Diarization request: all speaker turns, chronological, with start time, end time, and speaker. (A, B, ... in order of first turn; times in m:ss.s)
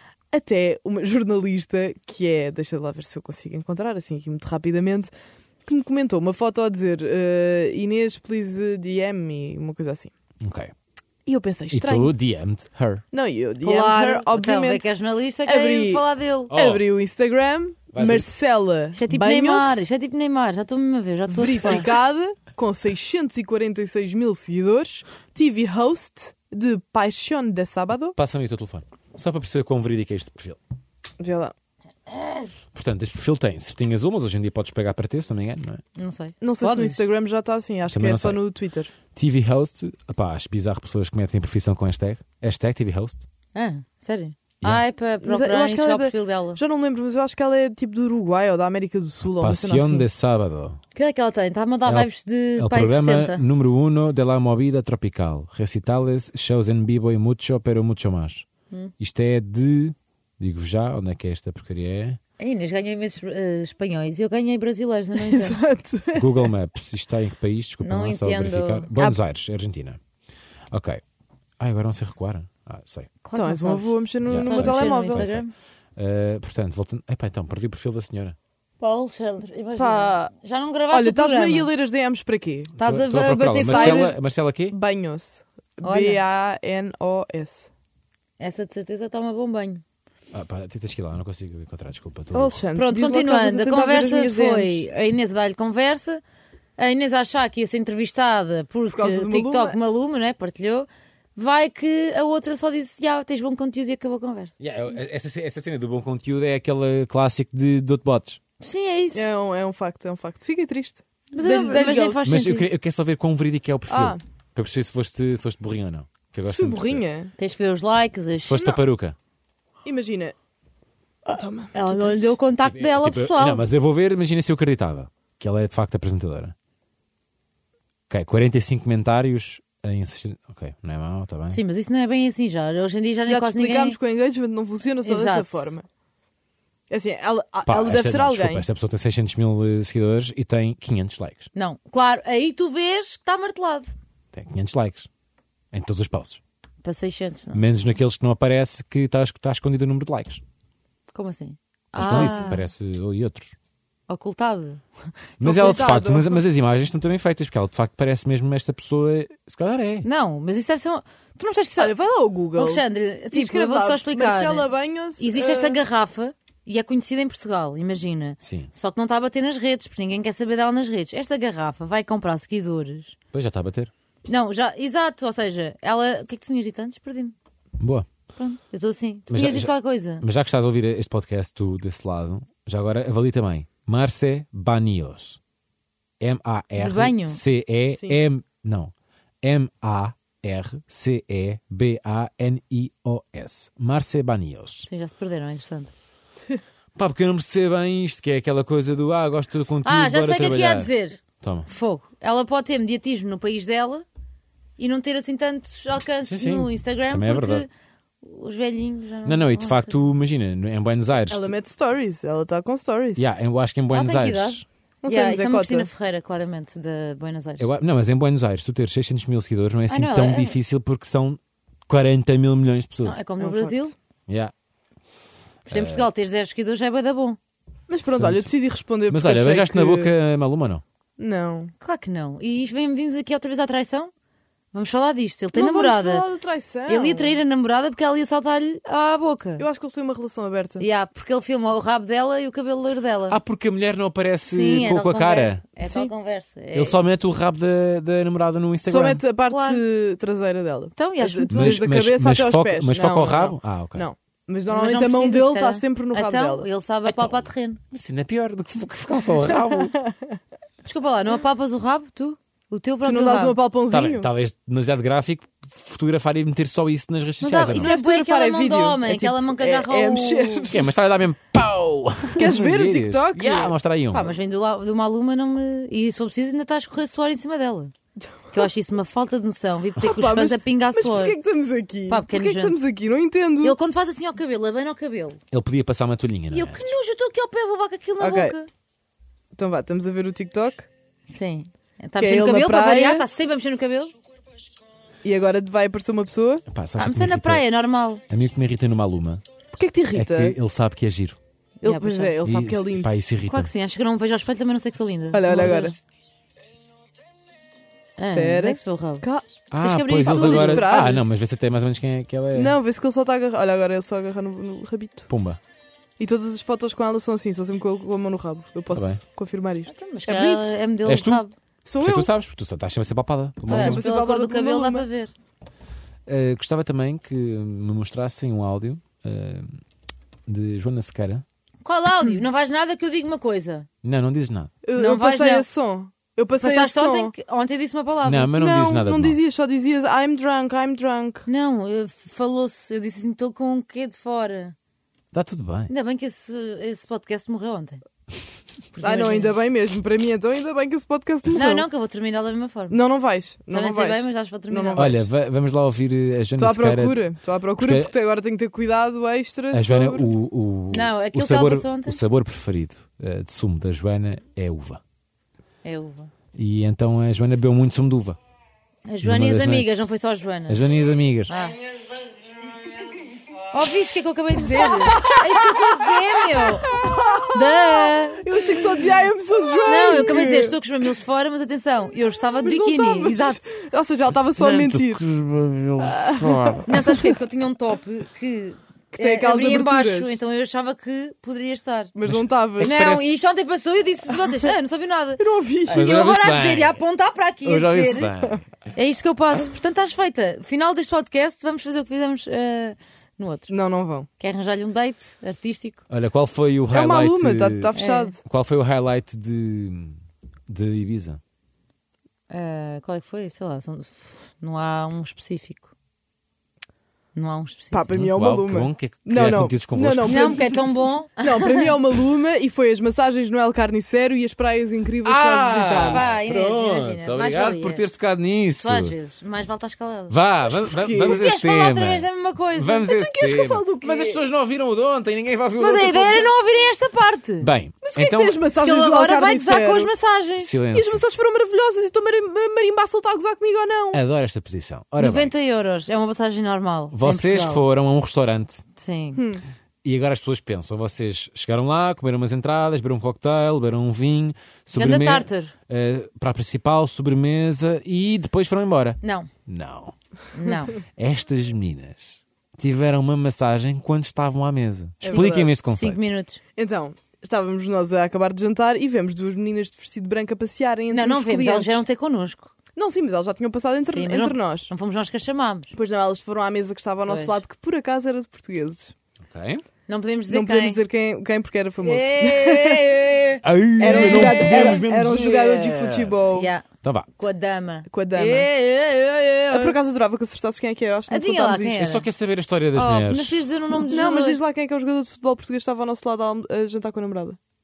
0:00.3-0:05.1 A
0:05.6-0:10.1 A
0:10.4-0:10.7 B
0:11.3-0:12.1 A
0:11.7-0:13.0 B
0:13.1-0:14.9 A
0:13.6-0:16.5 C
0:15.4-0:19.9 A
0:16.5-0:16.8 B
0:17.9-0:18.3 B
0:19.0-0:21.9 C
0:21.3-0:28.2 A
0:28.2-0:30.6 B
0:31.2-0:31.5 A
0:32.7-0:35.8 B
0:36.0-0:36.4 C
0:36.4-0:38.9 A
0:36.6-0:37.0 B
0:37.9-0:38.4 B
0:39.1-0:43.2 B
0:43.6-0:46.6 C
0:45.2-0:50.1 A
0:49.4-0:50.8 B
0:51.0-0:53.4 C
0:51.8-0:58.5 B
0:59.0-1:02.2 B
1:02.4-1:05.6 C
1:05.2-1:06.5 A
1:06.1-1:10.0 B
1:07.8-1:08.9 C
1:10.7-1:11.0 B
1:11.6-1:13.1 B
1:13.2-1:15.5 C
1:13.4-1:15.3 A
1:14.2-1:15.4 B
1:16.0-1:18.4 B
1:18.8-1:21.7 C
1:19.8-1:20.3 A
1:20.9-1:22.7 A
1:22.8-1:24.8 B
1:22.8-1:24.1 C
1:23.6-1:27.7 A
1:25.8-1:26.2 C
1:28.4-1:29.8 C
1:30.3-1:32.6 B
1:32.3-1:34.8 A
1:32.8-1:36.2 C
1:36.8-1:44.6 C
1:38.9-1:39.8 A
1:44.6-1:48.4 B
1:48.6-1:49.3 C
1:49.1-1:52.4 A
1:51.3-1:52.7 C
1:52.2-1:57.0 B
1:53.9-1:54.2 A
1:56.4-1:57.3 A
1:57.4-1:58.8 C
1:58.4-1:59.2 B
1:59.8-2:00.4 A
2:01.2-2:02.4 A
2:01.4-2:03.6 C
2:02.6-2:06.6 B
2:08.1-2:11.6 B
2:11.5-2:14.0 C
2:13.3-2:15.9 A
2:15.0-2:15.7 C
2:16.9-2:18.7 A
2:17.6-2:21.5 B
2:21.6-2:23.9 C
2:24.3-2:25.1 B
2:25.7-2:26.4 B
2:26.8-2:27.6 C
2:27.5-2:30.4 B
2:31.1-2:32.6 C
2:32.0-2:33.6 B
2:32.0-2:32.6 A
2:34.1-2:34.8 C
2:35.4-2:40.1 B
2:35.4-2:36.4 A
2:40.0-2:42.0 C
2:41.8-2:45.8 A
2:42.6-2:44.6 C
2:45.2-2:53.2 C
2:48.4-2:48.7 B
2:53.3-2:53.9 B
2:54.3-2:57.4 C
2:57.8-2:58.1 B
2:58.4-3:00.2 C
2:59.3-3:05.4 B
3:06.2-3:14.9 B
3:06.8-3:07.4 C
3:07.9-3:08.2 A
3:14.9-3:15.9 C
3:17.0-3:21.7 B
3:19.8-3:24.0 C
3:24.8-3:27.7 C
3:26.2-3:27.6 B
3:28.2-3:30.1 C
3:29.2-3:31.5 B
3:31.3-3:33.2 A
3:33.2-3:34.6 B
3:33.9-3:37.6 C
3:35.0-3:35.9 A
3:37.6-3:43.2 B
3:39.9-3:40.6 C
3:43.0-3:43.9 C
3:43.4-3:43.9 A
3:44.3-3:44.5 B
3:45.6-3:47.4 C
3:45.7-3:46.1 B
3:47.9-3:50.1 A
3:48.2-3:48.5 B
3:49.1-3:50.8 B
3:51.2-3:51.7 A
3:51.8-3:54.1 C
3:54.7-3:56.3 C
3:55.5-3:57.4 A
3:56.9-3:59.6 C
3:59.6-4:00.8 A
4:00.8-4:03.4 C
4:03.3-4:05.6 B
4:04.5-4:07.0 C
4:05.8-4:06.1 A
4:06.7-4:09.2 B
4:08.9-4:16.6 A
4:09.5-4:09.8 C
4:11.0-4:11.8 C
4:11.5-4:14.1 B
4:14.7-4:17.8 C
4:17.0-4:20.0 B
4:19.5-4:20.4 A
4:20.8-4:23.6 C
4:23.0-4:24.3 A
4:23.9-4:27.9 B
4:27.4-4:30.7 C
4:27.7-4:30.9 A
4:30.7-4:34.3 B
4:32.4-4:33.8 A
4:34.1-4:37.9 C
4:38.2-4:38.7 A
4:38.5-4:41.4 C
4:40.0-4:43.8 A
4:42.1-4:42.8 C
4:43.6-4:45.4 C
4:45.5-4:46.9 B
4:46.5-4:48.7 C
4:48.2-4:48.6 A
4:49.5-4:50.9 A
4:51.3-4:54.1 C
4:52.2-4:53.3 A
4:55.2-4:56.6 A
4:56.7-4:57.6 B
4:57.0-4:58.2 C
4:58.3-4:59.4 B
4:59.7-5:00.6 A
5:00.1-5:01.4 B
5:01.8-5:03.2 A
5:01.8-5:02.4 C
5:02.4-5:03.7 B
5:03.5-5:06.0 C
5:05.3-5:06.0 A
5:08.2-5:09.2 C
5:08.3-5:09.5 A
5:09.7-5:12.8 B
5:09.8-5:11.0 C
5:10.2-5:11.2 A
5:12.6-5:15.3 A
5:15.3-5:15.6 B
5:16.2-5:20.8 A
5:18.9-5:19.2 B
5:19.9-5:21.5 C
5:21.0-5:21.4 B
5:21.8-5:22.3 A
5:22.0-5:24.0 B
5:23.7-5:25.1 A
5:23.7-5:25.3 C
5:26.3-5:29.8 B
5:30.5-5:31.4 B
5:31.8-5:33.9 C
5:34.0-5:34.7 B
5:34.8-5:37.3 A
5:35.0-5:35.6 C
5:36.6-5:38.5 C
5:38.2-5:39.4 B
5:38.5-5:41.5 A
5:41.5-5:44.8 C
5:45.3-5:45.9 B
5:45.9-5:48.0 C
5:48.9-5:49.6 C
5:49.0-5:51.9 A
5:51.5-5:53.0 C
5:52.9-5:55.2 A
5:53.7-5:55.2 C
5:55.0-5:58.1 B
5:56.6-6:00.3 A
5:59.7-6:05.0 B
6:00.9-6:02.2 C
6:05.8-6:06.3 C
6:06.5-6:08.4 B
6:09.1-6:10.8 C
6:09.2-6:10.1 B
6:10.7-6:11.5 B
6:11.5-6:11.8 C
6:13.7-6:17.0 C
6:15.0-6:20.8 A
6:17.5-6:18.4 C
6:19.9-6:23.7 C
6:22.6-6:25.2 A
6:24.6-6:26.9 B
6:26.0-6:27.3 A
6:26.9-6:32.1 C
6:29.2-6:30.4 A
6:32.2-6:33.2 A
6:32.2-6:33.2 B
6:32.8-6:38.3 C
6:35.4-6:36.1 A
6:35.9-6:37.0 B
6:37.6-6:38.6 B
6:39.0-6:43.7 C
6:43.7-6:44.3 A
6:44.4-6:46.0 C
6:46.1-6:51.4 B
6:46.9-6:48.4 A
6:47.9-6:48.4 C
6:52.5-6:55.9 C
6:57.4-6:58.1 C
6:57.9-7:06.3 A
6:58.1-7:00.6 B
7:00.2-7:02.0 C
7:05.2-7:09.1 B
7:06.0-7:08.0 C
7:08.8-7:10.4 C
7:10.3-7:16.5 B
7:10.7-7:11.5 A
7:11.3-7:13.1 C
7:13.0-7:14.4 A
7:15.8-7:17.7 C
7:17.6-7:18.6 B
7:18.0-7:20.1 A
7:18.8-7:20.8 C
7:20.6-7:21.2 B
7:20.9-7:24.2 A
7:24.1-7:25.5 B
7:25.2-7:27.8 C
7:27.1-7:28.8 B
7:29.0-7:29.4 C
7:29.4-7:29.6 A
7:30.0-7:40.1 B
7:34.9-7:35.7 C
7:39.2-7:39.5 C
7:40.6-7:41.0 C
7:41.2-7:46.3 B
7:45.2-7:45.7 A
7:45.3-7:46.6 C
7:46.8-7:52.0 A
7:51.1-7:52.7 C
7:53.0-7:54.9 A
7:54.1-7:55.9 C
7:55.9-7:59.1 A
7:57.3-7:57.6 C
7:59.5-7:59.8 B
8:00.1-8:01.0 C
8:00.5-8:03.3 A
8:02.0-8:05.0 C
8:03.6-8:06.4 B
8:04.0-8:06.7 A
8:06.5-8:06.8 C
8:07.0-8:07.3 B
8:07.4-8:10.0 C
8:08.1-8:08.7 A
8:09.7-8:12.1 A
8:11.3-8:12.2 C
8:12.0-8:13.6 B
8:13.0-8:14.6 C
8:14.1-8:17.6 A